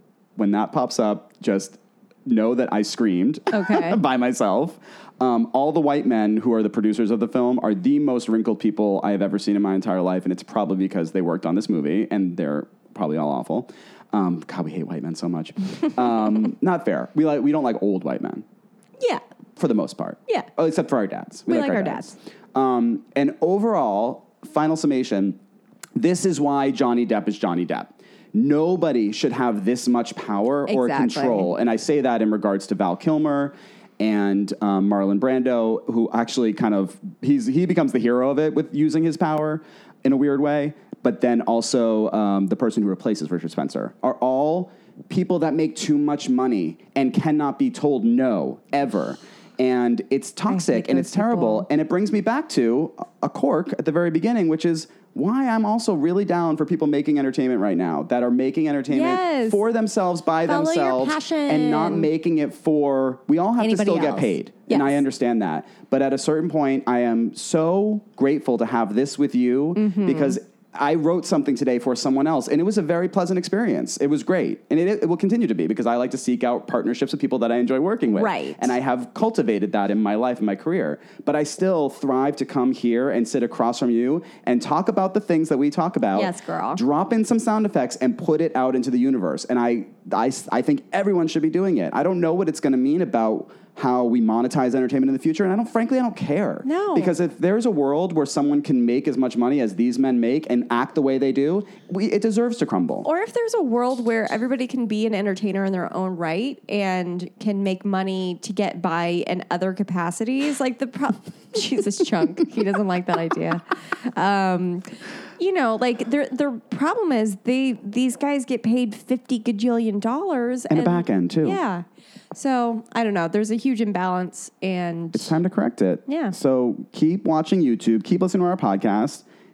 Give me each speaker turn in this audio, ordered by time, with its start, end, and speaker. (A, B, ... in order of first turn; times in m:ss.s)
0:00.4-0:18.4 A
0:03.5-0:04.0 B
0:19.6-0:25.4 A
0:21.5-0:22.1 B
0:26.0-1:43.1 A
0:30.7-0:31.5 B
0:50.5-0:51.7 B
0:58.9-0:59.6 B
1:00.4-1:02.1 B
1:03.6-1:05.0 B
1:09.8-1:10.4 B
1:18.1-1:18.8 B
1:26.2-1:26.8 B
1:36.6-1:37.2 B
1:43.0-1:53.6 B
1:54.1-2:05.4 B
2:00.7-2:01.6 A
2:05.1-2:09.2 A
2:06.1-2:06.3 B